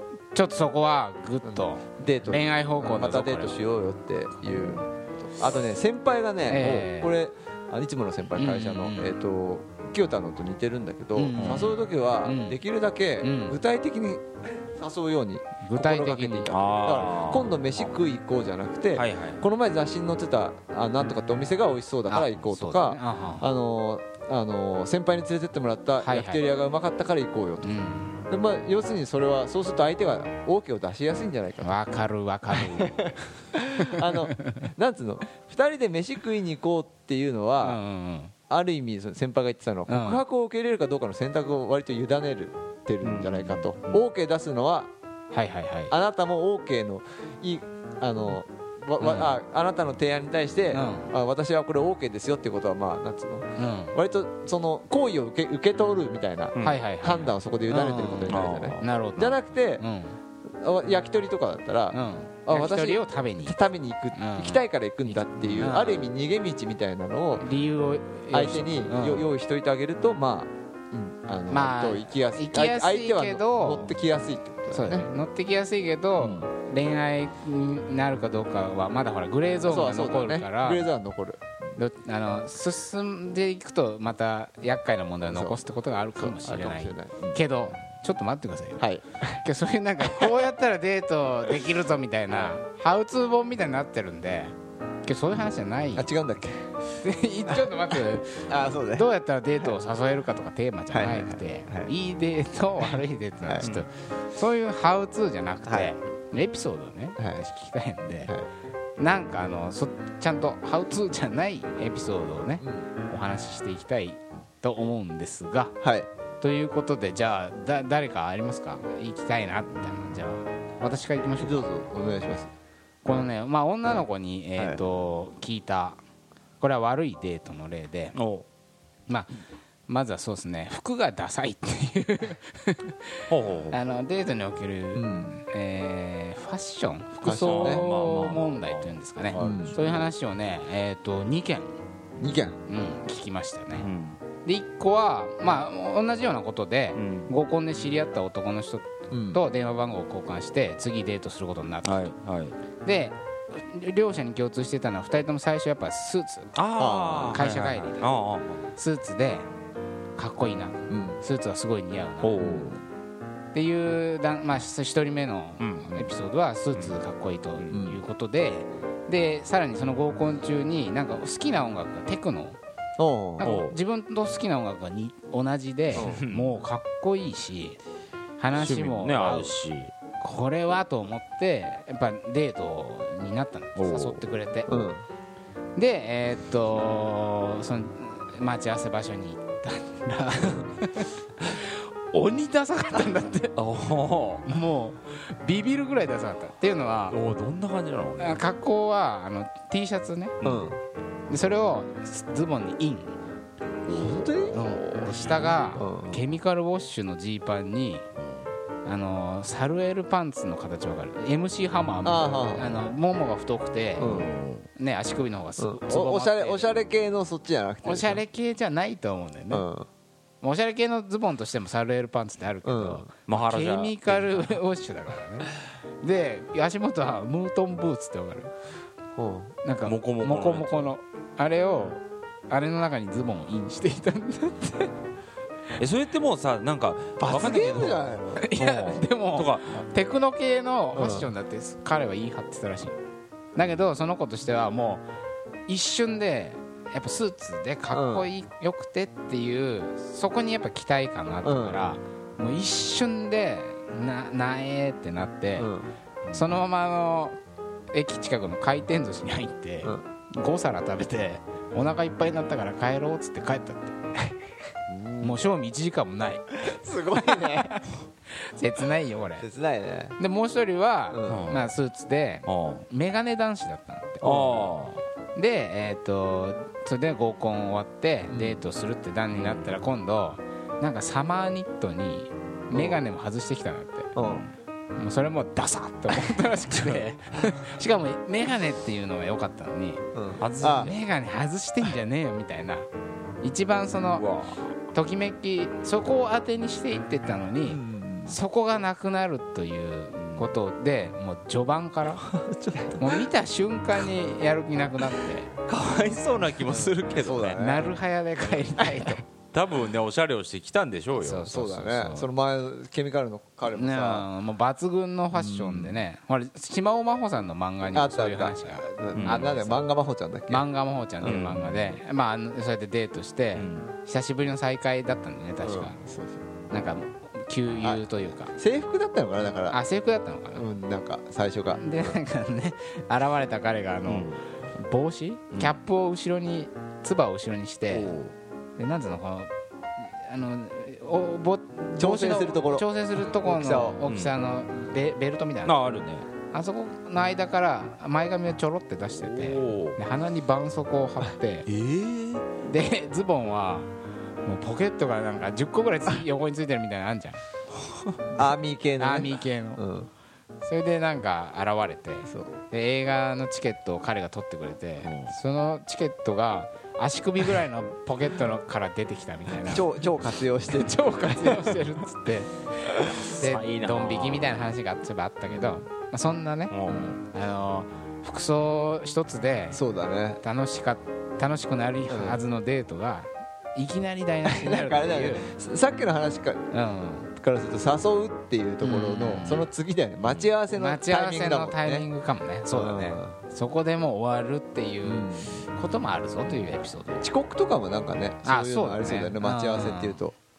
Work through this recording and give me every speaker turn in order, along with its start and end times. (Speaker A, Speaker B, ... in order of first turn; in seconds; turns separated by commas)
Speaker A: 0.3-3.6, Speaker B: 1.4-27.8, Speaker A: 6.5-7.1, Speaker A: 8.4-9.1, Speaker A: 11.2-12.6, Speaker C: 11.3-11.7, Speaker A: 13.2-13.6, Speaker A: 15.6-16.5, Speaker C: 16.5-17.8, Speaker C: 18.9-19.4, Speaker A: 22.1-23.5, Speaker A: 26.0-26.4, Speaker A: 27.6-28.2, Speaker B: 28.3-31.8, Speaker A: 31.6-33.2, Speaker B: 32.5-37.8, Speaker A: 33.8-34.7, Speaker A: 37.6-38.3, Speaker B: 38.5-44.9, Speaker A: 39.9-40.2, Speaker C: 43.0-44.0, Speaker A: 45.3-45.9, Speaker B: 45.9-59.8, Speaker A: 49.0-49.3, Speaker A: 50.7-51.1, Speaker A: 53.6-54.0, Speaker C: 56.5-56.8, Speaker A: 56.6-60.2, Speaker C: 58.3-58.9, Speaker B: 60.4-67.5, Speaker A: 61.9-63.6, Speaker A: 64.1-66.1, Speaker A: 67.4-69.3, Speaker B: 68.3-75.1, Speaker A: 71.5-74.0, Speaker A: 74.7-80.9, Speaker B: 76.2-76.5, Speaker B: 79.7-81.4, Speaker A: 81.8-96.1, Speaker B: 85.3-85.6, Speaker B: 86.2-87.5, Speaker B: 88.8-89.4, Speaker B: 90.0-90.3, Speaker B: 95.9-96.7, Speaker A: 97.0-108.3, Speaker B: 97.5-99.1, Speaker B: 100.9-101.9, Speaker B: 107.2-107.4, Speaker A: 109.0-115.8, Speaker B: 112.6-112.8, Speaker B: 115.8-116.1, Speaker A: 116.4-121.7, Speaker B: 121.4-122.5, Speaker A: 123.0-126.0, Speaker B: 124.6-124.8, Speaker A: 126.6-128.2, Speaker C: 128.1-128.4, Speaker A: 129.1-129.3, Speaker A: 129.9-141.7, Speaker C: 133.3-133.8, Speaker B: 134.9-135.4, Speaker B: 137.2-137.8, Speaker C: 137.2-140.0, Speaker B: 139.4-139.8, Speaker B: 142.2-142.6, Speaker A: 142.7-143.9, Speaker C: 143.8-144.2, Speaker A: 144.4-152.1, Speaker C: 146.9-147.3, Speaker B: 149.1-149.4, Speaker C: 151.8-152.6, Speaker A: 152.8-156.5, Speaker C: 156.6-158.7, Speaker B: 156.8-157.4, Speaker A: 157.3-158.1, Speaker A: 158.8-159.5, Speaker A: 160.2-162.6, Speaker B: 160.9-161.2, Speaker C: 162.2-162.8, Speaker B: 162.4-162.8, Speaker A: 163.5-172.6, Speaker C: 165.6-166.1, Speaker C: 166.7-167.0, Speaker B: 167.7-168.0, Speaker B: 173.0-173.5, Speaker A: 173.4-177.8, Speaker C: 173.4-173.8, Speaker C: 175.9-176.6, Speaker B: 175.9-176.2, Speaker A: 178.4-179.6, Speaker C: 178.5-179.9, Speaker A: 180.2-184.8, Speaker C: 183.8-184.2, Speaker B: 184.7-185.0, Speaker A: 185.8-193.6, Speaker C: 193.6-194.4, Speaker A: 194.4-197.2, Speaker C: 197.1-198.4, Speaker A: 198.2-200.4, Speaker C: 200.4-200.7, Speaker B: 200.4-200.8, Speaker A: 201.3-203.2, Speaker C: 203.8-205.7, Speaker B: 203.9-204.8, Speaker A: 204.5-208.1, Speaker B: 205.8-206.2, Speaker C: 208.2-208.5, Speaker A: 208.8-214.1, Speaker B: 212.0-212.8, Speaker C: 214.0-214.7, Speaker B: 214.0-214.3, Speaker A: 214.8-216.7, Speaker B: 215.6-218.2, Speaker A: 217.8-219.7, Speaker B: 219.5-219.9, Speaker A: 220.4-225.5, Speaker B: 222.6-223.1, Speaker C: 223.3-224.6, Speaker A: 226.0-228.5, Speaker B: 229.2-229.5, Speaker A: 229.6-234.9, Speaker C: 229.8-230.9, Speaker C: 235.8-239.8, Speaker B: 237.2-238.5, Speaker A: 238.3-243.0, Speaker B: 240.9-241.3, Speaker A: 243.6-245.1, Speaker A: 245.7-255.7, Speaker B: 247.9-248.3, Speaker B: 251.4-251.9, Speaker B: 255.6-255.9, Speaker C: 256.2-256.6, Speaker A: 256.3-257.4, Speaker A: 257.9-264.4, Speaker C: 264.9-265.5, Speaker A: 265.2-266.6, Speaker B: 266.6-267.8, Speaker A: 267.1-269.4, Speaker B: 269.4-270.2, Speaker A: 270.2-274.6, Speaker B: 271.1-271.5, Speaker C: 271.3-271.7, Speaker C: 272.4-272.9, Speaker C: 274.2-275.0, Speaker A: 275.3-284.1, Speaker B: 278.3-278.6, Speaker C: 279.3-279.8, Speaker B: 282.7-283.0, Speaker B: 284.1-284.4, Speaker C: 284.2-284.5, Speaker A: 285.0-290.0, Speaker B: 290.1-290.9, Speaker C: 290.4-290.9, Speaker A: 290.7-292.9, Speaker A: 293.4-294.3, Speaker C: 294.2-294.7, Speaker A: 294.8-302.3, Speaker B: 297.7-298.4, Speaker C: 300.1-300.5, Speaker B: 302.2-303.2, Speaker A: 302.9-305.5, Speaker C: 305.7-307.6, Speaker B: 306.6-307.9, Speaker A: 307.6-309.2, Speaker C: 309.5-312.1, Speaker A: 311.2-312.2, Speaker B: 311.5-314.3, Speaker A: 313.7-319.8, Speaker B: 315.3-316.0, Speaker B: 317.9-320.6, Speaker C: 319.1-319.5, Speaker A: 320.5-326.0, Speaker B: 321.2-321.5, Speaker C: 321.2-322.0, Speaker C: 323.6-323.9, Speaker B: 325.6-326.5, Speaker A: 326.7-328.5, Speaker B: 327.8-329.8, Speaker A: 329.7-330.7, Speaker B: 330.6-332.1, Speaker A: 331.8-338.1, Speaker C: 334.1-334.4, Speaker C: 335.5-335.8, Speaker C: 337.9-338.3, Speaker A: 338.8-345.8, Speaker B: 341.9-344.0, Speaker C: 344.1-344.3, Speaker C: 345.6-346.3, Speaker A: 346.5-351.7, Speaker C: 349.2-350.0, Speaker C: 351.7-352.4, Speaker A: 352.6-353.9, Speaker A: 354.4-357.4, Speaker C: 357.9-358.2, Speaker B: 358.3-360.1, Speaker A: 359.0-359.8, Speaker A: 360.6-369.9, Speaker B: 362.3-362.5, Speaker C: 365.0-365.3, Speaker B: 369.6-371.8, Speaker A: 370.7-379.8, Speaker C: 373.2-374.7, Speaker C: 376.7-377.2, Speaker B: 379.7-380.4, Speaker A: 380.4-385.5, Speaker B: 382.1-382.4, Speaker B: 384.4-386.6, Speaker A: 386.7-387.3, Speaker B: 387.3-392.1, Speaker A: 388.8-389.7, Speaker C: 390.2-390.5, Speaker A: 390.7-397.3, Speaker B: 392.7-393.4, Speaker B: 395.0-395.7, Speaker B: 396.4-400.3, Speaker A: 398.4-400.2